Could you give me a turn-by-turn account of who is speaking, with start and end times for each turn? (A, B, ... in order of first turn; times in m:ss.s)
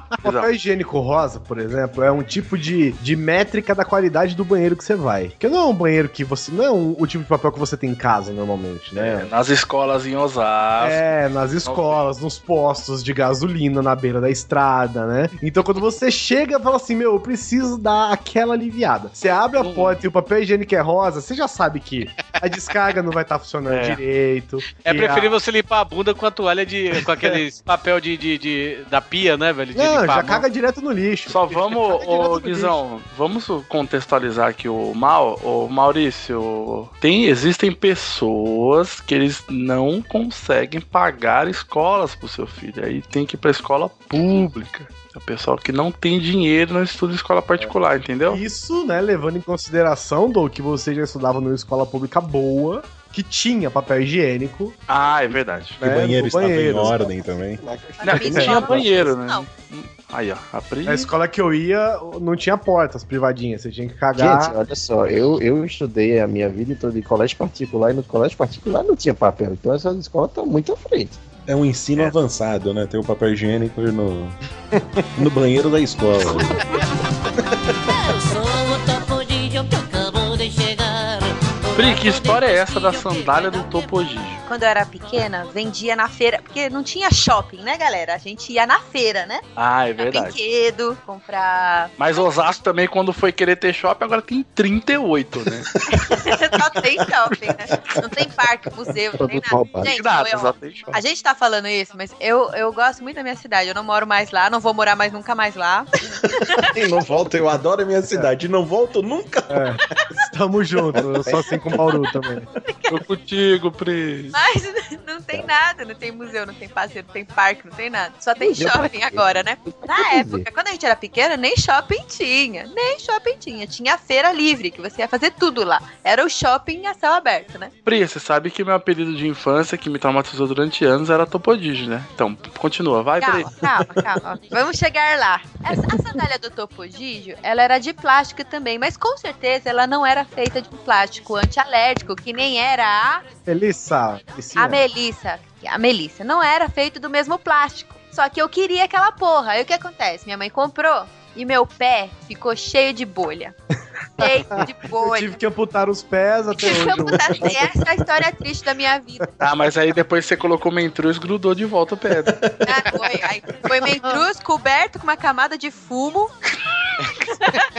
0:00.2-0:09.3 A
0:00.2-0:00.5 B
0:08.9-0:11.0 B
0:10.8-0:25.4 A
0:11.6-0:12.1 B
0:19.6-0:20.0 B
0:23.7-0:24.0 B
0:24.8-0:30.4 C
0:29.7-0:32.8 A
0:31.3-0:48.4 B
0:48.2-0:54.8 A
0:54.9-0:55.8 B
0:55.8-0:57.0 A
0:55.8-0:57.6 D
0:56.7-0:59.1 E
0:58.0-0:59.5 F
0:58.0-1:01.1 B
0:58.3-0:58.7 A
1:00.8-1:04.6 A
1:04.1-1:11.2 E
1:11.5-1:14.4 D
1:15.2-1:16.5 D
1:18.2-1:21.1 G
1:21.7-1:23.8 G
1:21.7-1:24.4 B
1:24.5-1:29.4 F
1:29.6-1:30.4 B
1:30.0-1:31.9 F
1:32.0-1:35.7 B
1:35.9-1:45.9 F
1:39.1-1:39.9 E
1:39.8-1:40.9 B
1:46.4-1:49.8 D
1:46.4-1:46.8 F
1:49.5-1:52.5 A
1:51.2-1:51.8 E
1:52.6-1:53.0 F
1:52.9-1:54.4 B
1:54.3-2:07.7 F
1:58.4-2:00.5 E
2:07.8-2:13.5 B
2:13.2-2:23.2 F
2:15.7-2:16.2 E
2:23.4-2:24.8 A
2:24.6-2:33.5 F
2:34.2-2:35.3 F
2:34.5-2:37.7 A
2:36.5-2:39.3 F
2:39.4-2:42.4 B
2:42.2-2:42.6 D
2:42.6-2:46.3 F